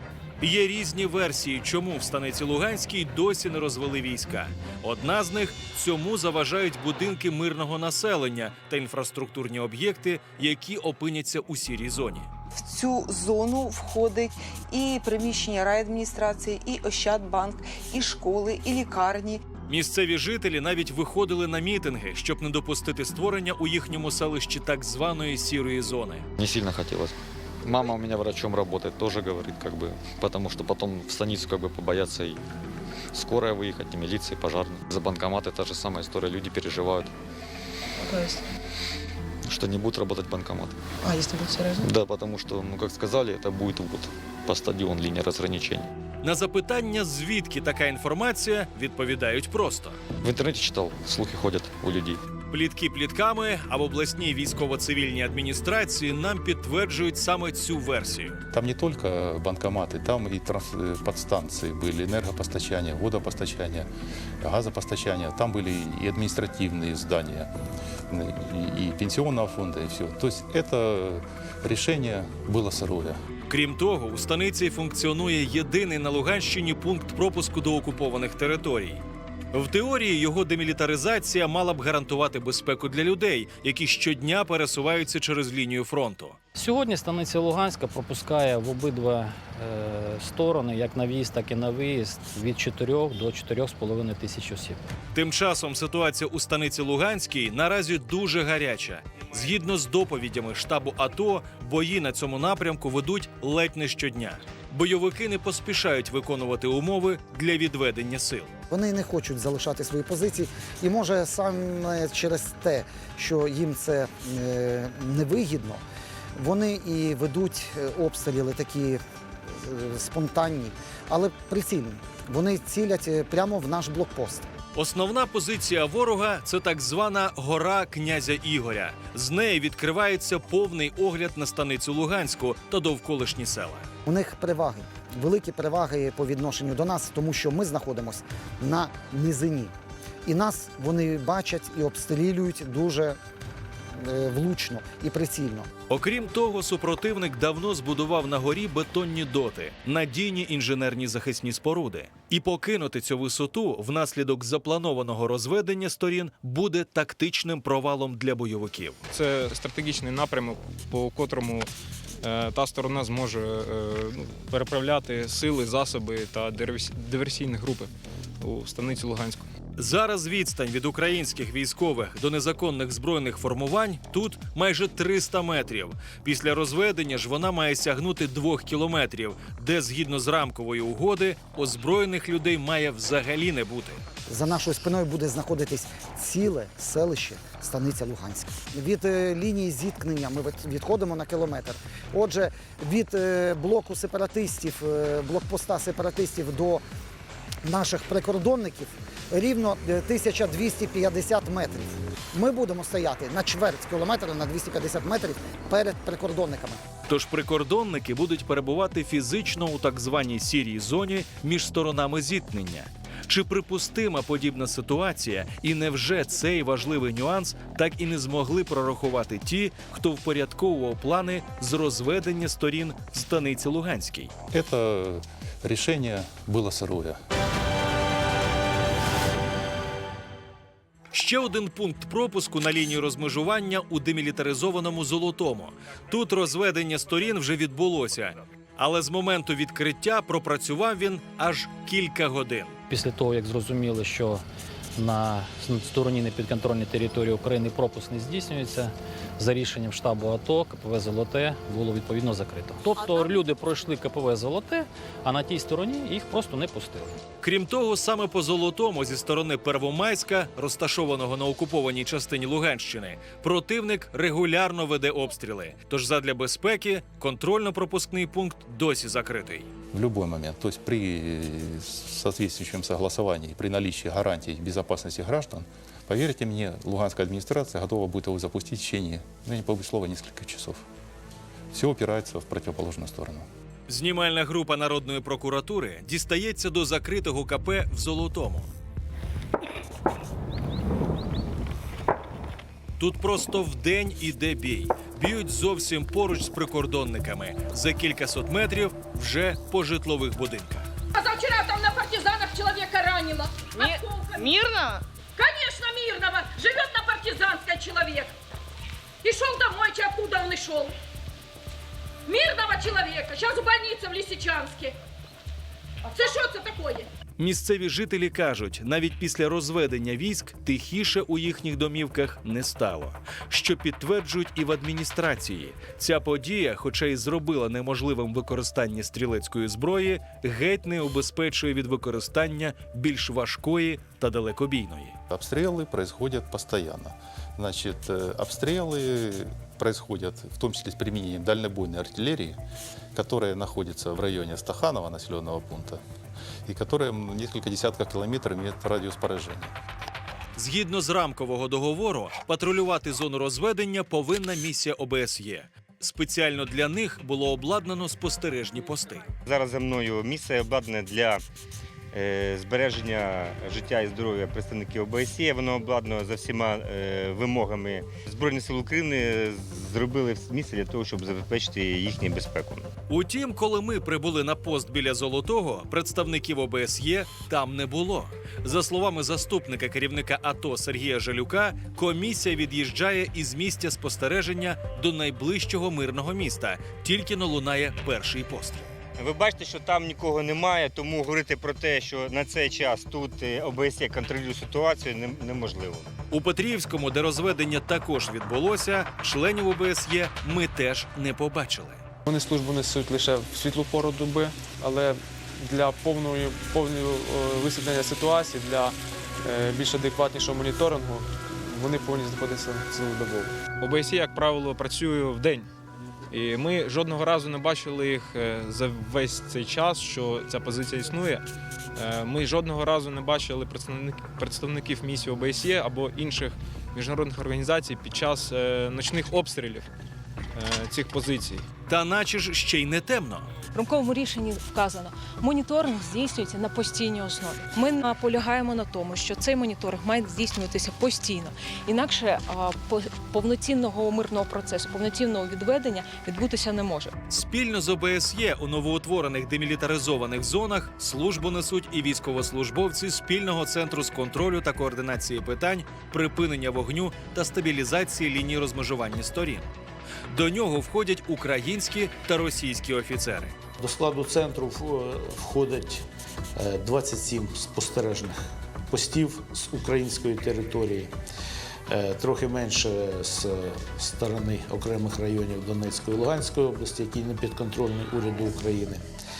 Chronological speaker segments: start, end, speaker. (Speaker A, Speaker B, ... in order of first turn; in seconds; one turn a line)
Speaker A: 0.4-12.3
Speaker B: 12.5-19.4
Speaker A: 19.7-26.2
Speaker C: 26.4-32.4
Speaker C: 33.1-37.1
Speaker B: 38.0-38.5
Speaker C: 39.4-40.8
Speaker B: 41.0-41.9
Speaker C: 41.8-45.9
Speaker A: 46.2-50.0
Speaker C: 50.2-52.2
Speaker A: 52.5-58.4
Speaker D: 58.5-63.9
Speaker D: 64.4-67.5
Speaker D: 68.1-73.2
Speaker A: 73.5-86.4
Speaker E: 86.5-94.8
Speaker A: 95.1-108.5
Speaker F: 108.7-115.8
Speaker F: 116.4-124.5
Speaker A: 124.7-133.8
Speaker F: 134.1-139.7
Speaker F: 140.3-143.2
Speaker F: 143.9-145.7
Speaker A: 145.9-159.0
Speaker G: 159.1-161.7
Speaker G: 162.2-169.5
Speaker A: 169.8-184.0
Speaker F: 184.3-196.8
Speaker F: 197.6-206.8
Speaker A: 207.1-224.3
Speaker D: 224.5-227.2
Speaker A: 231.1-242.7
Speaker E: 242.9-257.2
Speaker A: 257.4-269.7
Speaker D: 269.9-280.8
Speaker D: 281.7-283.5
Speaker A: 283.9-288.7
Speaker A: 293.0-300.9
Speaker H: 301.1-304.7
Speaker H: 305.4-308.3
Speaker H: 309.2-311.0
Speaker H: 312.3-315.0
Speaker H: 316.0-317.1
Speaker A: 317.4-335.2
Speaker D: 335.3-342.6
Speaker D: 343.1-346.0
Speaker D: 346.7-349.7
Speaker A: 350.6-359.3
Speaker I: 359.4-361.4
Speaker I: 362.1-372.9
Speaker A: 373.1-388.9
Speaker I: 389.2-396.1
Speaker A: 396.3-402.0
Speaker J: 402.2-413.6
Speaker G: 413.8-415.7
Speaker G: 416.3-429.9
Speaker G: 430.5-431.7
Speaker A: 431.9-433.5
Speaker K: 433.7-447.1
Speaker A: 447.3-459.7
Speaker A: 460.3-463.6
Speaker L: 463.8-466.0
Speaker L: 466.6-468.4
Speaker L: 468.9-471.1
Speaker L: 471.9-479.0